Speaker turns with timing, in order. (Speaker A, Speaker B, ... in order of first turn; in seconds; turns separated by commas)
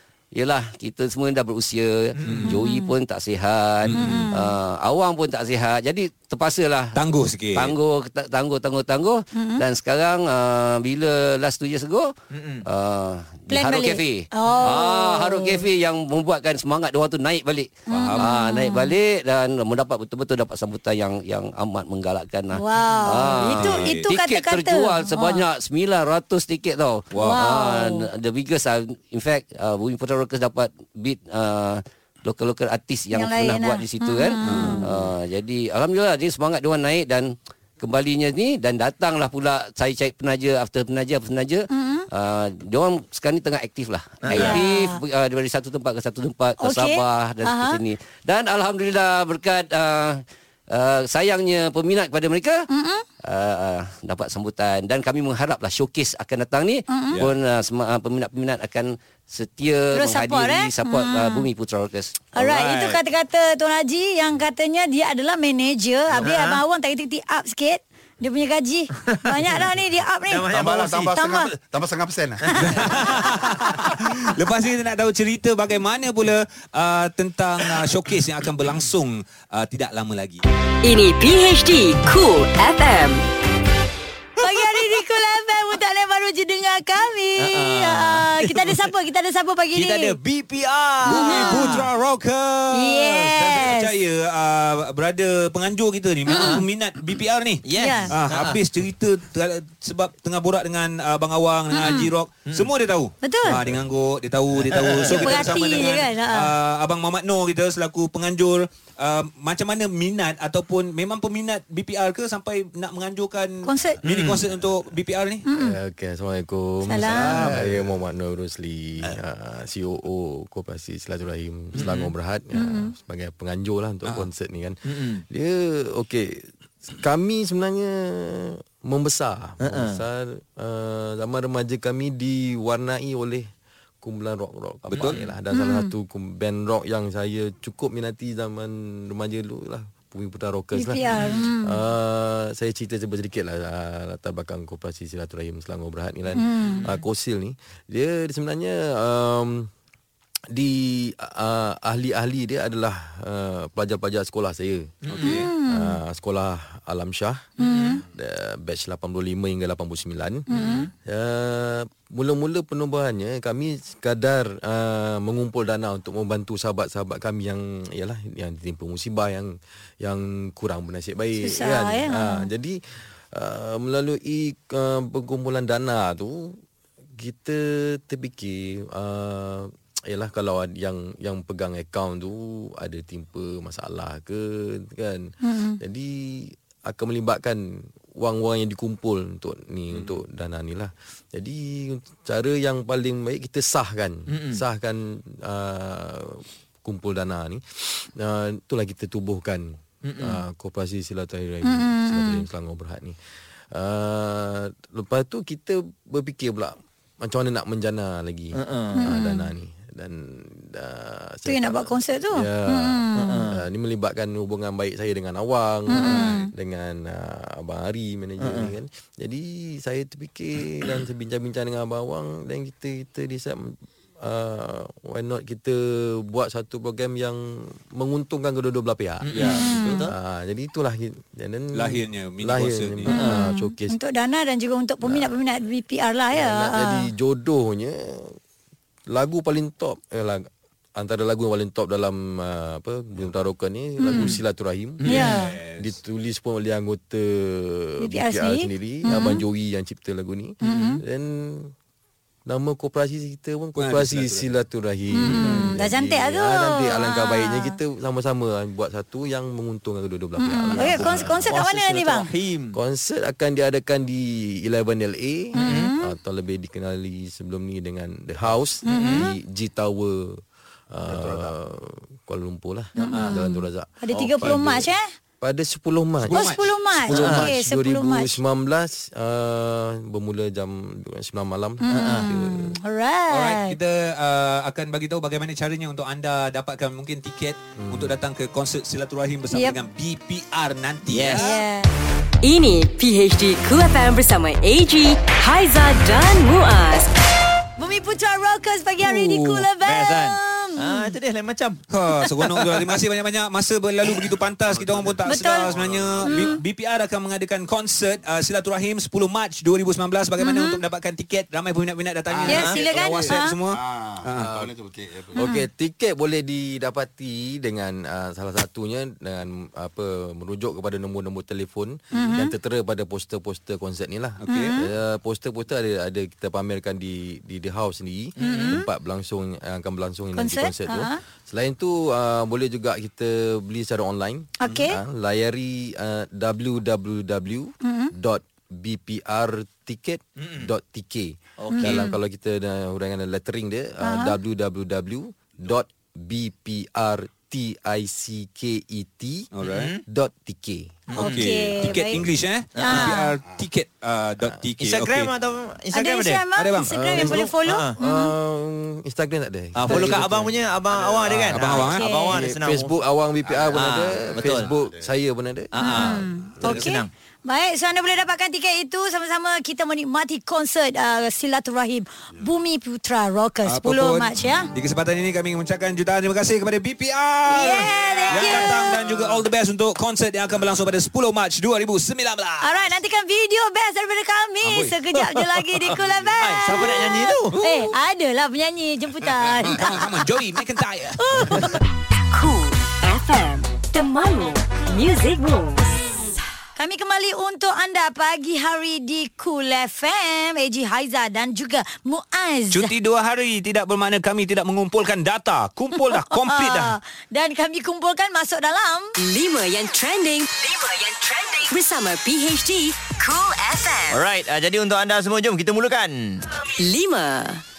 Speaker A: 0.3-7.0, Speaker B: 2.2-2.5, Speaker C: 2.2-2.5, Speaker D: 2.5-2.9, Speaker C: 3.8-4.3, Speaker D: 3.9-4.5, Speaker C: 6.9-7.8, Speaker A: 7.5-12.1, Speaker D: 9.3-9.6, Speaker B: 12.3-12.6, Speaker A: 12.6-52.6, Speaker D: 13.5-15.7, Speaker C: 17.9-18.3, Speaker D: 17.9-19.0, Speaker D: 22.5-25.4, Speaker C: 23.1-24.1, Speaker C: 27.1-27.4, Speaker D: 27.2-28.1, Speaker D: 33.1-34.9, Speaker C: 34.4-35.1, Speaker D: 41.7-42.1, Speaker B: 44.2-44.5, Speaker C: 44.3-44.6, Speaker D: 44.3-45.0, Speaker D: 46.6-47.8, Speaker D: 52.7-53.0, Speaker A: 53.2-62.6, Speaker D: 56.9-57.2, Speaker D: 59.9-61.5, Speaker D: 62.3-71.5, Speaker B: 66.2-66.6, Speaker B: 69.1-69.6, Speaker B: 70.3-71.1, Speaker E: 70.5-72.5, Speaker B: 72.5-73.2, Speaker C: 72.6-80.4, Speaker F: 80.8-83.2, Speaker D: 84.4-90.2, Speaker B: 87.4-88.8, Speaker B: 89.7-91.8, Speaker C: 91.0-115.4, Speaker D: 91.0-91.8, Speaker D: 92.7-93.9, Speaker B: 96.3-96.6, Speaker B: 97.6-98.6, Speaker D: 97.8-98.1, Speaker D: 101.7-102.1, Speaker D: 103.2-103.6, Speaker B: 104.7-105.5, Speaker D: 105.0-106.5, Speaker D: 113.6-114.0, Speaker B: 114.0-114.4, Speaker D: 115.5-115.8, Speaker G: 115.5-133.5, Speaker D: 116.8-117.5, Speaker E: 117.2-117.9, Speaker D: 122.5-122.9, Speaker B: 124.9-125.2, Speaker B: 129.6-130.0, Speaker G: 134.0-149.7, Speaker C: 134.9-135.2, Speaker D: 135.5-135.9, Speaker D: 140.7-141.8, Speaker D: 146.4-146.8, Speaker G: 150.5-154.9, Speaker C: 155.1-155.5, Speaker D: 155.2-156.0, Speaker G: 155.5-157.5, Speaker B: 157.6-158.0, Speaker D: 157.6-158.0, Speaker G: 158.1-160.5, Speaker D: 160.5-160.9, Speaker B: 160.5-160.9, Speaker G: 161.0-172.8, Speaker D: 171.4-172.5, Speaker G: 173.3-176.6, Speaker G: 177.2-203.2, Speaker D: 185.4-185.8, Speaker B: 194.3-194.6, Speaker B: 200.0-200.4, Speaker D: 201.6-202.4, Speaker G: 203.7-234.0, Speaker B: 208.5-209.1, Speaker D: 208.9-209.5, Speaker D: 211.4-213.3, Speaker B: 213.2-213.6, Speaker D: 215.9-216.5, Speaker B: 215.9-216.2, Speaker B: 218.4-218.7, Speaker B: 229.3-230.1, Speaker C: 229.3-229.6, Speaker D: 229.4-230.0, Speaker C: 231.7-233.1, Speaker D: 233.1-237.1, Speaker G: 235.0-235.4, Speaker G: 236.3-238.4, Speaker G: 239.1-251.7, Speaker D: 244.0-244.3, Speaker B: 245.0-245.3, Speaker C: 245.1-245.9, Speaker D: 245.1-245.5, Speaker D: 248.0-249.4, Speaker D: 250.6-251.0, Speaker G: 252.4-261.6, Speaker C: 253.8-254.5, Speaker D: 255.1-257.7, Speaker D: 260.4-262.3, Speaker B: 260.7-262.8, Speaker G: 262.7-274.9, Speaker D: 265.5-266.1, Speaker B: 265.6-265.9, Speaker D: 268.8-269.3, Speaker B: 268.9-269.2, Speaker E: 271.1-271.5, Speaker D: 273.0-275.0, Speaker B: 273.0-273.3, Speaker G: 275.4-282.8, Speaker C: 276.2-276.6, Speaker D: 276.3-278.4, Speaker B: 277.2-277.5, Speaker D: 281.8-283.8, Speaker B: 281.9-282.3, Speaker C: 283.3-291.6, Speaker G: 287.8-288.2, Speaker B: 291.1-291.6, Speaker D: 291.4-291.9, Speaker F: 292.4-297.1, Speaker D: 297.8-301.1, Speaker C: 299.0-299.6, Speaker B: 299.8-302.9, Speaker C: 301.9-314.5, Speaker E: 304.7-306.5, Speaker D: 305.2-305.7, Speaker D: 306.2-306.6, Speaker D: 310.4-310.8, Speaker E: 312.3-315.4, Speaker B: 312.4-312.8, Speaker D: 312.5-313.6, Speaker G: 315.3-349.5, Speaker D: 315.4-315.6, Speaker D: 322.1-322.5, Speaker C: 324.4-324.7, Speaker D: 324.5-324.9, Speaker B: 328.4-328.7, Speaker D: 328.4-328.9, Speaker D: 330.4-331.2, Speaker D: 334.6-335.0, Speaker D: 337.8-338.1, Speaker B: 340.4-340.7, Speaker B: 341.6-342.0, Speaker D: 341.7-342.2, Speaker D: 344.0-344.3, Speaker C: 349.5-349.9, Speaker B: 349.6-350.0, Speaker G: 350.1-351.1, Speaker B: 351.1-351.4, Speaker D: 351.1-352.2, Speaker C: 351.2-355.3, Speaker B: 352.8-353.1, Speaker D: 352.8-353.3, Speaker B: 354.8-356.4, Speaker D: 355.9-358.3, Speaker C: 356.6-357.4, Speaker G: 356.8-360.6, Speaker B: 357.6-357.9, Speaker B: 359.8-362.9, Speaker C: 359.9-360.1, Speaker E: 360.9-361.4, Speaker G: 361.3-361.8, Speaker C: 361.5-362.0, Speaker D: 361.9-362.3, Speaker G: 362.3-366.2, Speaker E: 363.4-365.1, Speaker B: 363.7-364.7, Speaker B: 365.7-367.1, Speaker D: 365.8-374.7, Speaker C: 366.6-366.9, Speaker C: 373.6-382.9, Speaker D: 377.5-379.0, Speaker B: 377.5-379.1, Speaker D: 382.6-390.3, Speaker C: 384.6-385.2, Speaker B: 386.4-387.6, Speaker C: 386.6-387.9, Speaker C: 389.6-391.7, Speaker D: 391.2-391.8, Speaker F: 392.3-395.9, Speaker D: 396.8-402.9, Speaker C: 402.7-406.9, Speaker D: 406.1-409.1, Speaker F: 409.2-414.2, Speaker B: 414.1-416.4, Speaker F: 416.8-417.6